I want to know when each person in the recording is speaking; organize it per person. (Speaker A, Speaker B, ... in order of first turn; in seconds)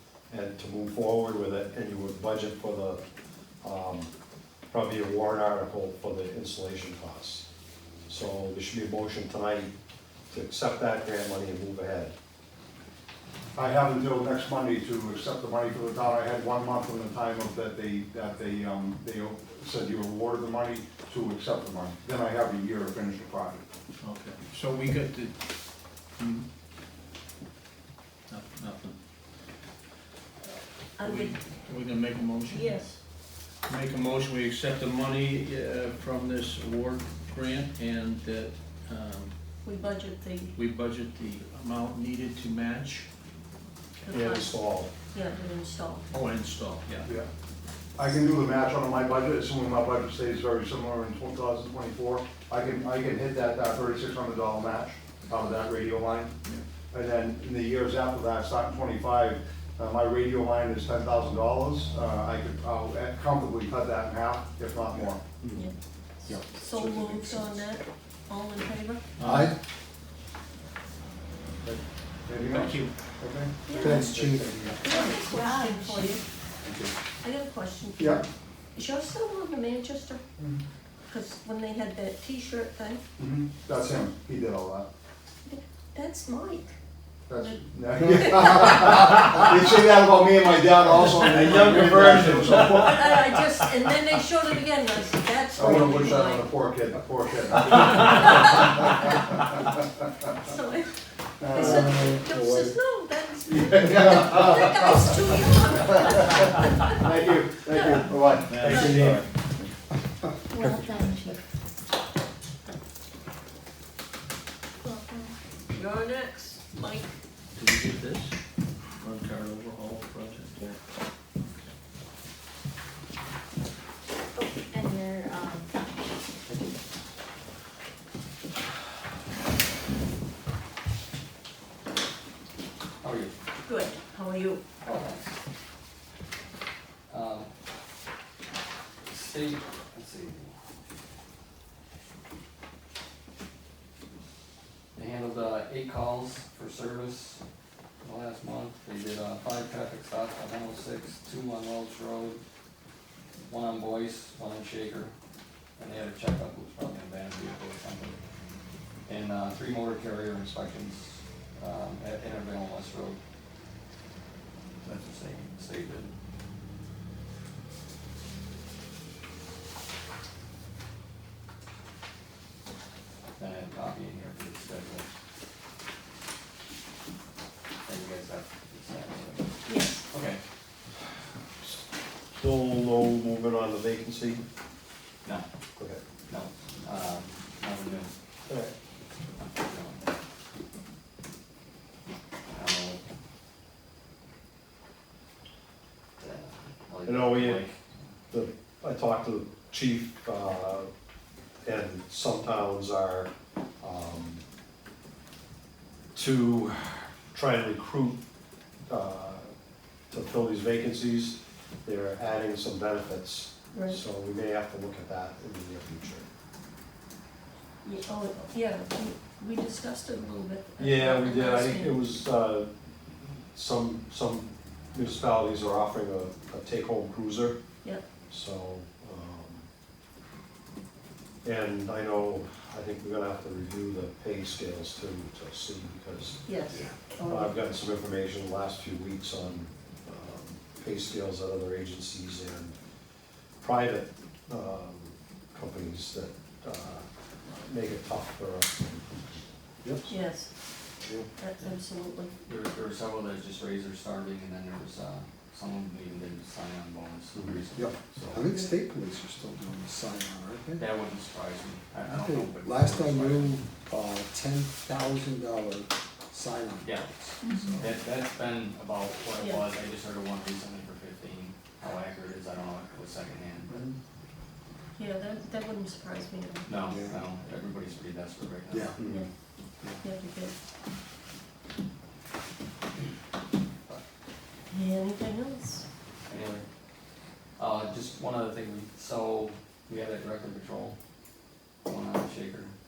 Speaker A: 0.3-3.0, 3.6-4.1, 4.7-7.5, 8.1-9.7, 10.3-12.1, 44.1-44.9, 91.3-92.9, 108.5-109.3, 182.3-184.4, 185.8-186.0, 188.5-188.7, 197.1-197.6, 198.3-200.9, 201.6-204.4, 206.1-208.2, 208.9-209.5, 210.1-216.3, 220.8-222.9, 223.5-227.6, 228.3-229.7, 231.4-236.4, 237.3-242.8, 243.6-250.0, 257.4-257.6
Speaker B: 13.6-23.6, 47.0-47.3, 48.0-56.4, 56.9-65.2, 71.6-74.9, 76.6-77.0, 78.0-78.2, 83.2-84.9, 87.3-93.2, 95.5-99.0, 101.4-101.8, 103.5-109.3
Speaker C: 24.0-26.5, 28.3-29.0, 31.0-33.0, 33.5-39.4, 40.6-43.1, 46.1-47.1, 69.2-69.5, 72.4-72.9, 117.6-118.4, 119.0-120.7, 121.5-121.7
Speaker D: 30.9-31.4, 32.5-33.0, 39.6-40.6, 44.0-46.1, 65.5-69.0, 73.7-74.2, 74.8-76.2, 77.2-80.2, 81.1-83.0, 85.5-86.8, 87.4-88.8, 92.7-96.5, 97.9-99.2, 100.3-100.9, 101.5-109.1, 115.7-117.1, 133.7-134.6, 179.7-180.1, 213.7-214.0, 217.8-222.0, 236.5-237.6, 250.1-250.5, 251.4-252.3, 267.4-267.8, 269.4-269.6, 275.0-276.8, 279.0-279.3, 280.0-280.5, 284.7-285.9
Speaker E: 65.4-65.7, 66.3-67.6, 69.2-69.6, 73.7-74.8, 88.0-88.7, 101.5-102.7, 257.7-260.9, 262.1-267.9, 273.7-274.0, 276.9-277.2, 278.7-279.3
Speaker F: 74.9-76.1, 110.5-111.4, 114.8-115.3, 124.3-125.9
Speaker G: 133.0-133.3, 134.8-135.4, 137.1-137.5, 139.1-140.5, 144.9-147.4, 148.0-152.4, 153.4-155.1, 155.8-158.2, 159.1-163.2, 164.8-166.2, 173.4-175.1, 177.8-179.6, 180.1-180.4, 186.3-188.1, 189.6-190.1, 192.5-193.0, 196.2-197.8, 252.4-258.4, 260.8-263.6, 266.8-273.8, 276.6-279.0, 286.3-286.6, 287.6-291.0, 291.8-292.7